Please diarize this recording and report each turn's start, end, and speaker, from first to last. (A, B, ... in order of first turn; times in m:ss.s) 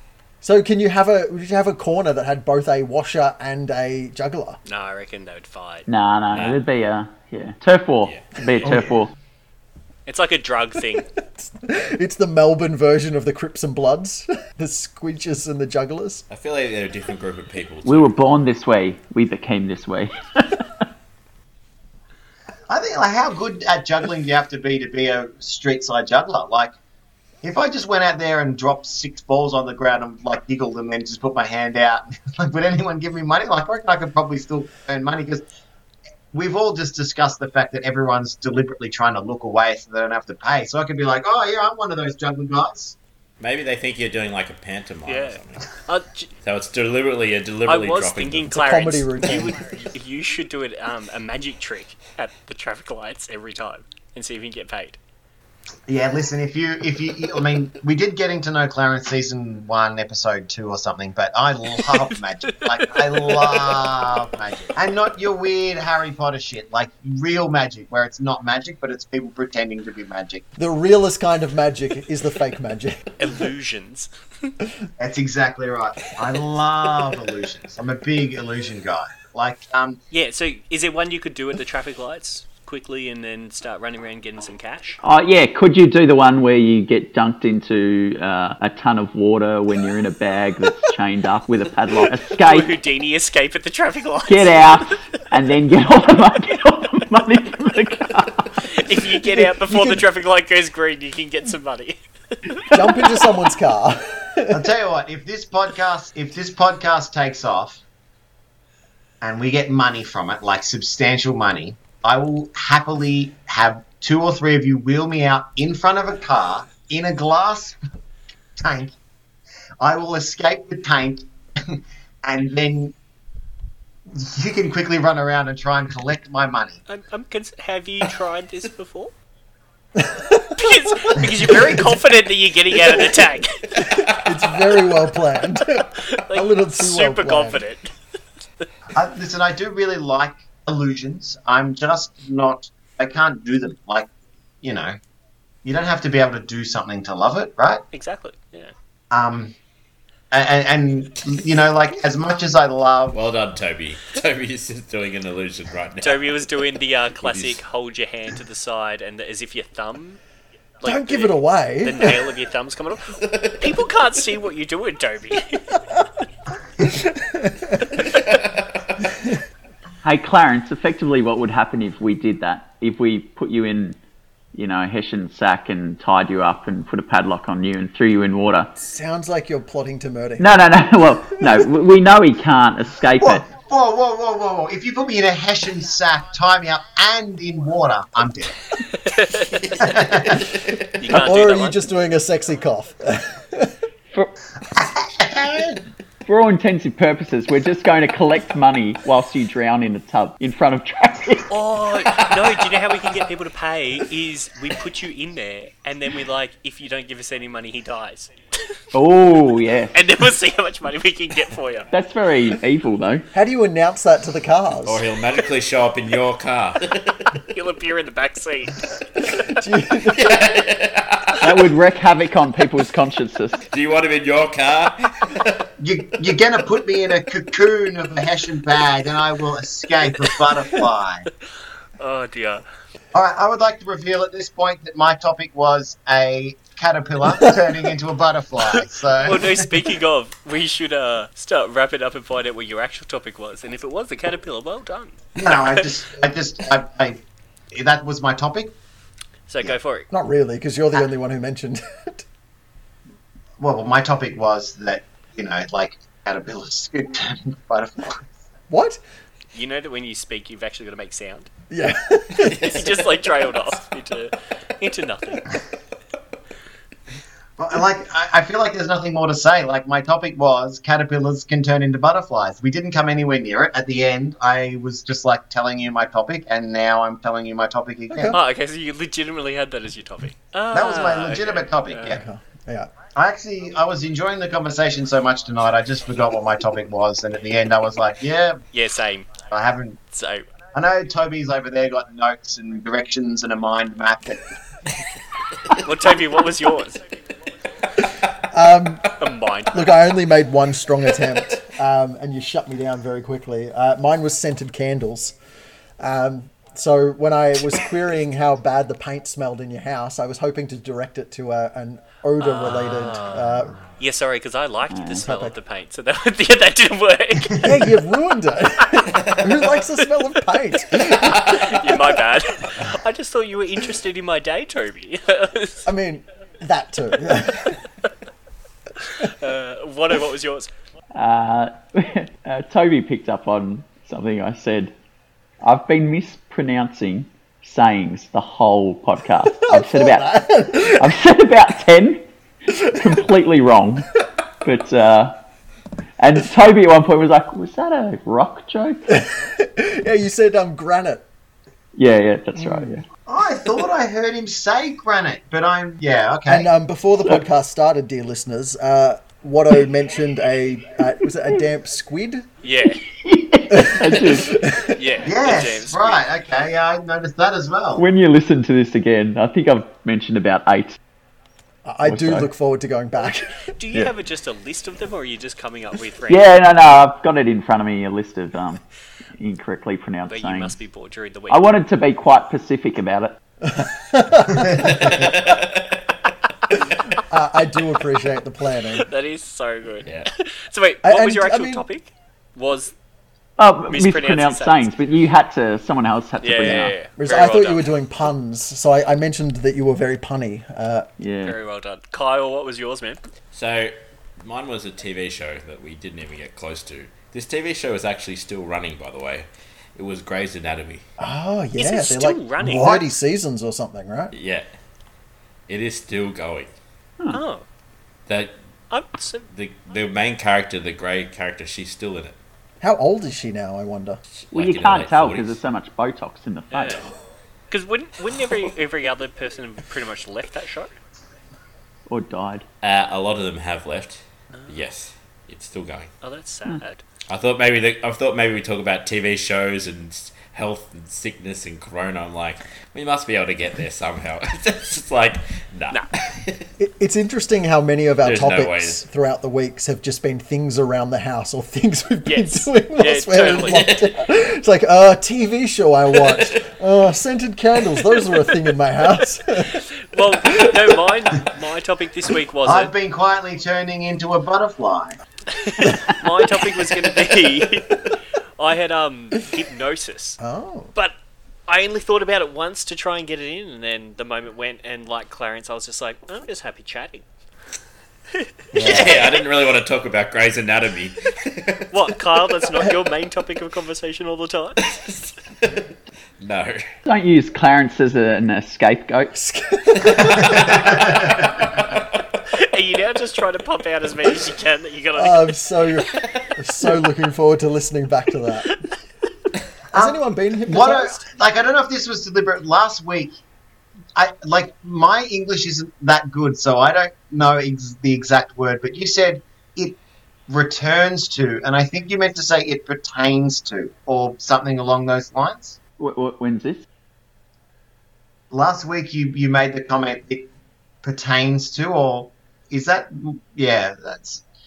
0:00.4-0:04.6 A
0:04.6-0:05.9 B
0:05.9-0:09.1 C
0:06.3-0:06.6 D
0:08.0-0:08.8 D
0:08.6-0:08.9 E
0:10.0-0:11.1 B
0:11.2-0:16.2 A
0:16.3-0:18.1 D
0:17.8-0:20.8 C
0:22.7-0:26.7 E
0:27.4-0:35.4 E
0:36.3-0:43.0 E
0:43.4-0:45.7 D
0:45.1-0:46.3 B
0:46.4-0:48.5 D
0:47.6-0:55.0 B
0:48.5-0:49.6 A
0:55.9-1:10.4 E
1:02.8-1:04.0 B
1:10.6-1:13.0 A
1:13.2-1:14.5 B
1:15.0-1:20.0 E
1:20.1-1:25.0 B
1:25.0-1:32.7 C
1:32.4-1:34.7 B
1:34.3-1:38.6 C
1:38.6-1:43.2 B
1:39.2-1:40.0 A
1:42.7-1:44.7 A
1:44.5-1:47.8 E
1:49.2-1:57.8 E
1:58.6-1:59.0 E
1:59.8-2:02.9 E
2:04.1-2:06.8 E
2:06.9-2:09.1 B
2:10.0-2:11.8 A
2:10.6-2:13.9 B
2:13.8-2:17.6 A
2:15.9-2:17.9 B
2:18.9-2:24.1 E
2:24.6-2:25.0 E
2:25.6-2:27.8 E
2:27.9-2:28.7 B
2:29.1-2:29.5 E
2:30.3-2:33.3 E
2:33.1-2:36.3 D
2:36.0-2:40.2 B
2:37.2-2:37.6 D
2:40.8-2:45.8 B
2:40.8-2:42.3 A
2:43.2-2:43.7 D
2:47.1-2:47.7 A
2:48.0-2:49.0 D
2:50.0-2:54.0 C
2:54.5-2:58.7 C
2:58.8-3:00.5 A
3:00.4-3:03.5 C
3:01.3-3:01.7 A
3:03.2-3:08.7 E
3:08.9-3:09.6 B
3:09.6-3:10.3 D
3:09.8-3:10.5 E
3:11.0-3:11.8 B
3:11.1-3:13.7 A
3:14.7-3:15.8 E
3:16.2-3:21.5 C
3:21.5-3:28.3 B
3:22.2-3:22.4 D
3:28.9-3:30.0 C
3:29.9-3:31.9 B
3:31.9-3:33.3 C
3:33.3-3:35.0 A
3:34.8-3:37.5 D
3:37.5-3:38.8 B
3:39.2-3:40.4 A
3:40.0-3:41.7 D
3:41.4-3:43.7 C
3:43.7-3:45.7 D
3:45.8-3:51.3 E
3:52.0-3:52.6 B
3:53.1-3:59.7 E
3:58.7-4:05.8 B
4:05.4-4:07.2 E
4:07.7-4:08.7 E
4:09.5-4:10.1 B
4:10.1-4:12.2 A
4:13.6-4:18.3 E
4:18.7-4:19.0 A
4:19.5-4:21.5 B
4:21.7-4:22.9 A
4:22.4-4:22.8 D
4:22.6-4:25.5 B
4:27.6-4:38.4 E
4:38.1-4:38.4 A
4:38.3-4:42.2 B
4:40.7-4:42.2 E
4:42.0-4:42.9 A
4:43.1-4:48.6 E
4:48.7-4:49.3 B
4:49.5-4:50.0 E
4:50.1-4:50.4 B
4:50.7-4:54.6 E
4:55.8-4:57.0 B
4:58.4-4:59.1 A
4:59.2-5:00.0 B
4:59.7-5:05.4 A
5:06.0-5:13.8 A
5:12.4-5:17.8 B
5:14.9-5:15.2 C
5:15.2-5:15.5 A
5:17.5-5:22.0 A
5:19.1-5:19.6 D
5:20.9-5:25.8 B
5:25.8-5:27.8 A
5:29.0-5:30.7 B
5:31.1-5:34.9 C
5:35.6-5:40.3 C
5:39.5-5:41.2 A
5:40.8-5:42.2 C
5:42.7-5:43.1 A
5:42.8-5:45.4 C
5:46.2-5:49.2 C
5:49.1-5:51.2 A
5:51.9-5:53.0 C
5:52.6-5:53.0 A
5:53.2-5:56.7 E
5:56.5-6:02.5 A
6:02.6-6:03.0 B
6:03.0-6:04.6 C
6:03.7-6:05.0 A
6:04.9-6:06.2 B
6:05.2-6:08.0 E
6:08.0-6:11.0 C
6:11.8-6:13.5 A
6:12.0-6:12.5 C
6:13.7-6:16.5 B
6:16.3-6:18.8 C
6:19.4-6:20.8 C
6:20.3-6:21.6 B
6:21.5-6:23.4 C
6:23.6-6:25.0 A
6:24.8-6:26.1 D
6:27.1-6:29.1 A
6:28.9-6:32.9 B
6:31.0-6:31.8 A
6:33.6-6:37.1 C
6:33.9-6:35.2 B
6:36.4-6:37.9 B
6:37.2-6:41.1 A
6:41.2-6:41.6 C
6:41.4-6:43.2 B
6:43.5-6:51.0 D
6:51.2-6:54.3 A
6:51.8-6:53.1 B
6:52.8-6:53.0 E
6:54.3-6:54.7 D
6:55.7-6:56.7 D
6:57.3-6:57.6 B
6:58.3-6:58.6 D
6:58.9-6:59.5 B
6:59.5-7:02.4 D
7:02.8-7:04.2 A
7:04.4-7:05.5 D
7:04.5-7:07.1 C
7:06.7-7:07.1 B
7:07.7-7:10.9 B
7:12.1-7:12.6 C
7:12.8-7:16.1 D
7:16.2-7:17.0 B
7:17.3-7:26.7 D
7:26.8-7:39.8 A
7:28.2-7:29.0 D
7:32.2-7:33.8 B
7:33.5-7:34.2 D
7:39.9-7:42.9 B
7:42.6-7:45.2 E
7:45.5-7:50.4 B
7:50.4-7:50.9 A
7:51.7-7:57.2 B
7:58.7-7:59.3 B
7:58.7-7:59.2 A
7:58.8-8:01.9 D
8:01.9-8:04.8 B
8:04.8-8:05.8 D
8:06.4-8:06.8 D
8:07.0-8:09.3 C
8:09.3-8:11.2 A
8:10.0-8:12.0 D
8:10.3-8:11.1 E
8:12.5-8:15.5 B
8:15.1-8:18.8 A
8:16.1-8:16.5 D
8:19.9-8:21.2 A
8:19.9-8:23.4 E
8:24.1-8:35.8 E
8:36.0-8:36.8 C
8:38.5-8:40.5 E
8:41.0-8:44.4 E